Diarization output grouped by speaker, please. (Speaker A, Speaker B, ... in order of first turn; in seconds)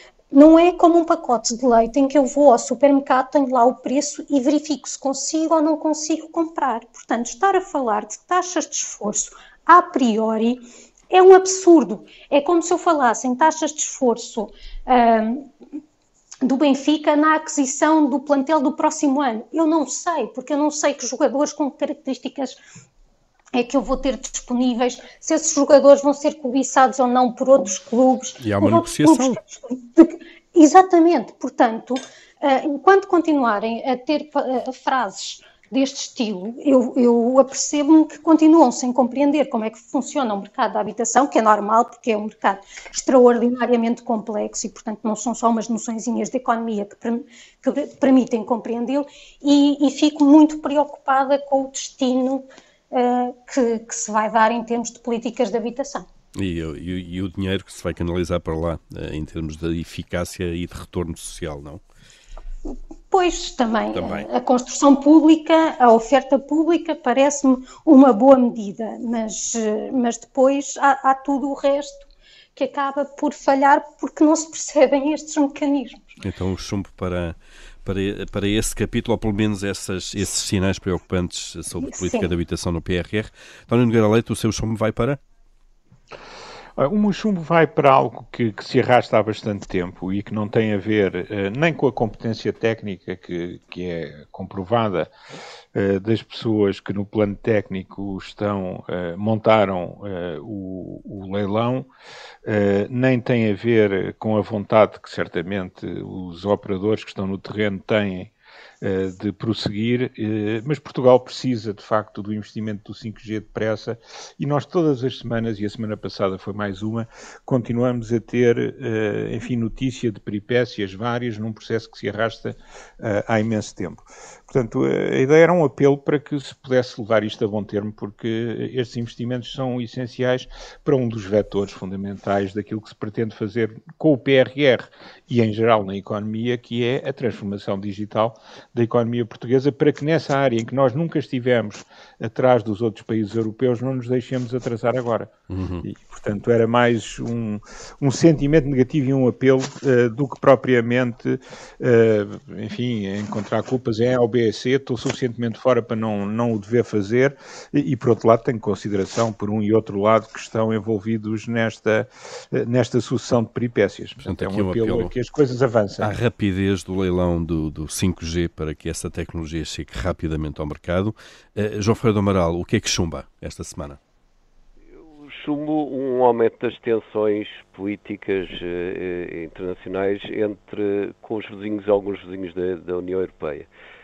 Speaker A: 0.3-15.5, 16.4-22.6, 23.5-56.0, 63.1-76.2, 81.8-82.3
Speaker B: 28.4-29.4, 56.3-61.8, 63.9-64.3, 76.2-85.2, 145.5-145.8, 164.2-165.1, 166.0-174.0
Speaker C: 86.8-95.1, 95.7-101.9, 102.4-166.2
Speaker D: 175.2-183.7